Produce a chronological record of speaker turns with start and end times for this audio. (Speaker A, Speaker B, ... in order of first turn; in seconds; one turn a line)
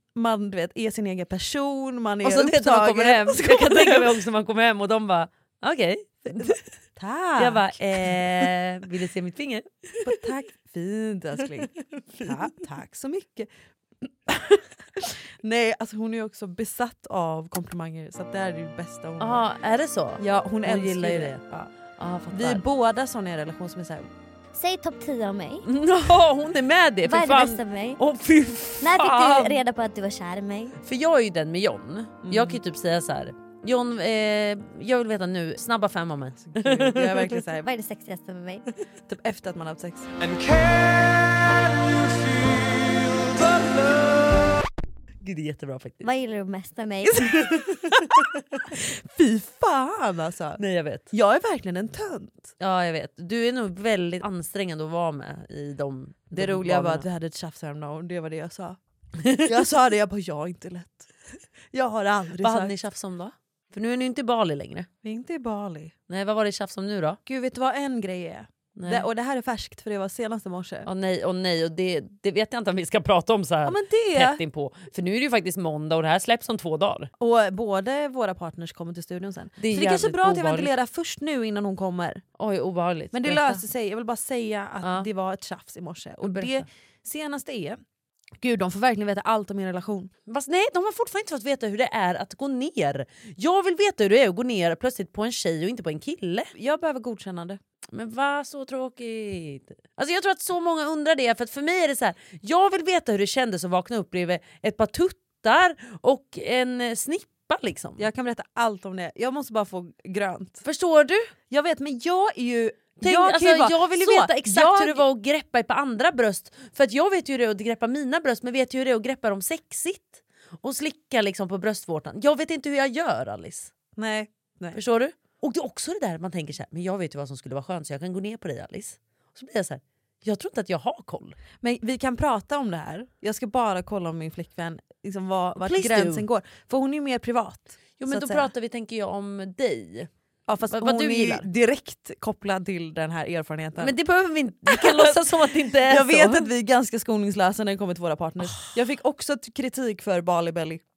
Speaker A: 0.1-4.1
Speaker B: 2.2-6.6
Speaker A: 6.3-8.5
Speaker B: 7.4-9.7
Speaker A: 10.0-13.5
Speaker A: 14.0-19.4
Speaker B: 19.2-21.4
Speaker A: 20.2-21.7
Speaker B: 22.0-22.6
Speaker A: 22.3-24.1
Speaker C: 24.5-25.6
Speaker B: 25.6-29.6
Speaker C: 27.1-28.0
Speaker C: 28.8-30.8
Speaker B: 30.8-37.3
Speaker A: 32.2-32.6
Speaker A: 36.5-37.7
Speaker C: 37.6-38.6
Speaker A: 39.1-40.1
Speaker B: 45.2-46.1
Speaker C: 46.0-47.2
Speaker A: 47.1-48.0
Speaker B: 47.6-48.0
Speaker A: 48.7-52.5
Speaker B: 50.6-51.1
Speaker B: 52.6-57.1
Speaker A: 56.3-58.8
Speaker A: 59.5-61.1
Speaker A: 61.7-62.7
Speaker B: 62.4-64.9
Speaker A: 65.0-65.9
Speaker B: 66.1-67.2
Speaker A: 67.3-70.9
Speaker B: 68.8-69.1
Speaker B: 70.8-77.1
Speaker A: 73.7-74.4
Speaker A: 77.2-82.2
Speaker B: 79.6-80.7
Speaker B: 82.4-83.6
Speaker A: 83.1-87.8
Speaker B: 86.2-86.7
Speaker A: 88.4-90.1
Speaker B: 90.3-96.5
Speaker A: 96.5-97.6
Speaker B: 97.9-108.0
Speaker A: 108.0-110.6
Speaker B: 110.6-111.3
Speaker A: 111.5-115.0
Speaker B: 113.0-123.7
Speaker A: 124.0-124.8
Speaker B: 124.7-131.4
Speaker A: 131.6-138.5
Speaker B: 135.6-136.2
Speaker B: 138.0-140.1
Speaker A: 140.5-144.0
Speaker B: 140.7-141.4
Speaker B: 143.8-146.5
Speaker A: 144.7-145.2
Speaker A: 145.8-150.8